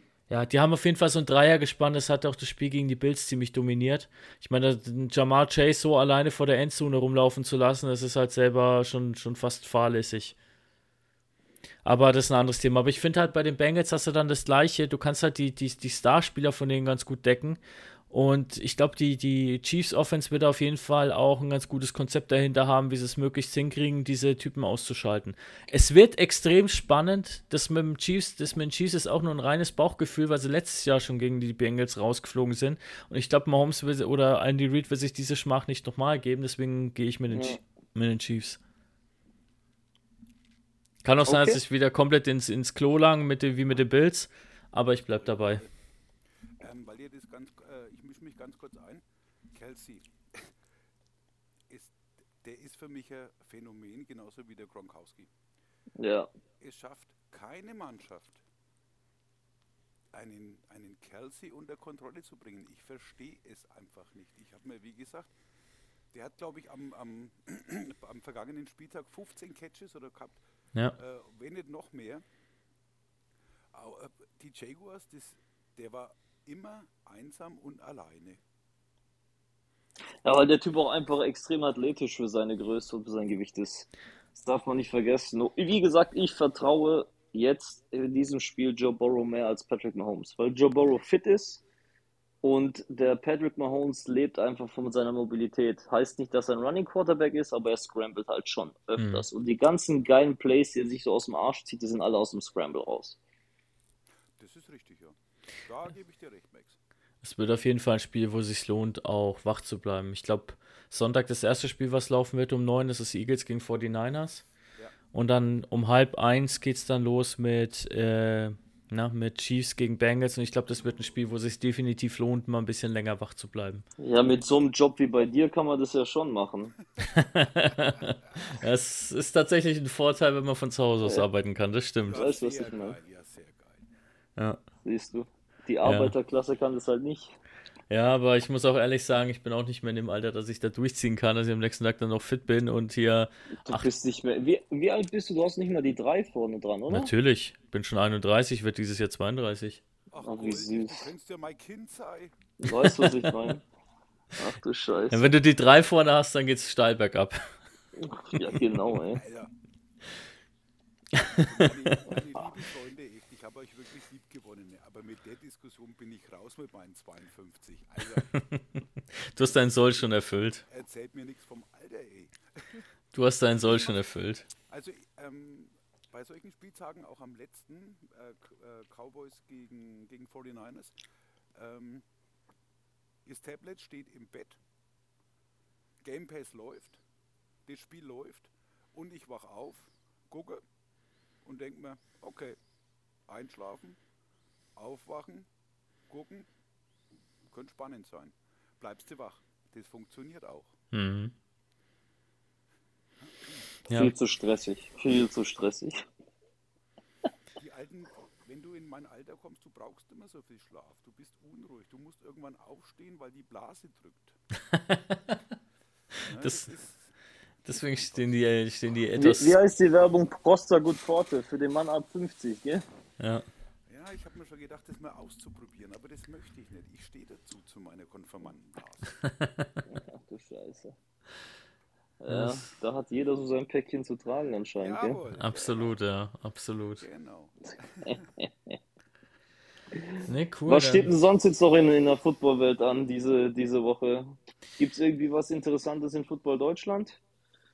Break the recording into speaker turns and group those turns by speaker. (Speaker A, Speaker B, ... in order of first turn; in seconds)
Speaker A: 0.3-10.3, 11.8-17.6, 18.1-38.6, 41.0-45.6, 99.0-99.2, 107.2-114.4, 115.1-123.8, 127.0-132.2, 135.8-136.1, 137.9-143.9, 146.9-149.8, 152.8-153.3, 155.1-157.5, 161.2-162.0, 168.3-170.6, 173.1-174.5, 200.9-201.3, 214.7-215.2, 216.4-216.7, 217.7-219.6, 223.2-223.4, 229.4-229.8, 232.3-232.7, 235.4-237.0, 240.2-241.1
Speaker B: 37.3-37.6, 41.2-41.6, 56.0-56.3, 80.2-91.6, 92.4-103.2, 124.0-126.7, 132.1-133.0, 134.8-137.4, 143.7-147.1, 150.2-151.1, 152.6-153.6, 154.4-155.2, 158.0-159.2, 203.9-206.0, 219.2-222.8, 229.9-230.9, 232.2-235.2, 238.4-238.8, 240.0-247.2
Speaker C: 45.2-45.7, 46.6-50.5, 51.7-55.3, 56.6-58.4, 60.1-65.3, 66.1-70.4, 70.9-72.2, 73.7-78.4, 104.4-106.8, 132.1-133.8, 150.1-152.4, 159.0-159.5, 161.2-168.3, 169.4-170.0, 170.7-172.9, 173.6-174.0, 174.7-180.9, 181.5-182.0, 183.2-184.6, 186.0-187.0, 187.7-190.6, 191.4-192.6, 193.3-194.0, 194.8-195.5, 196.1-196.5, 197.5-200.8, 203.2-204.1, 207.6-214.4, 216.2-217.1, 217.7-218.3, 223.9-229.2, 234.8-235.9, 237.0-238.2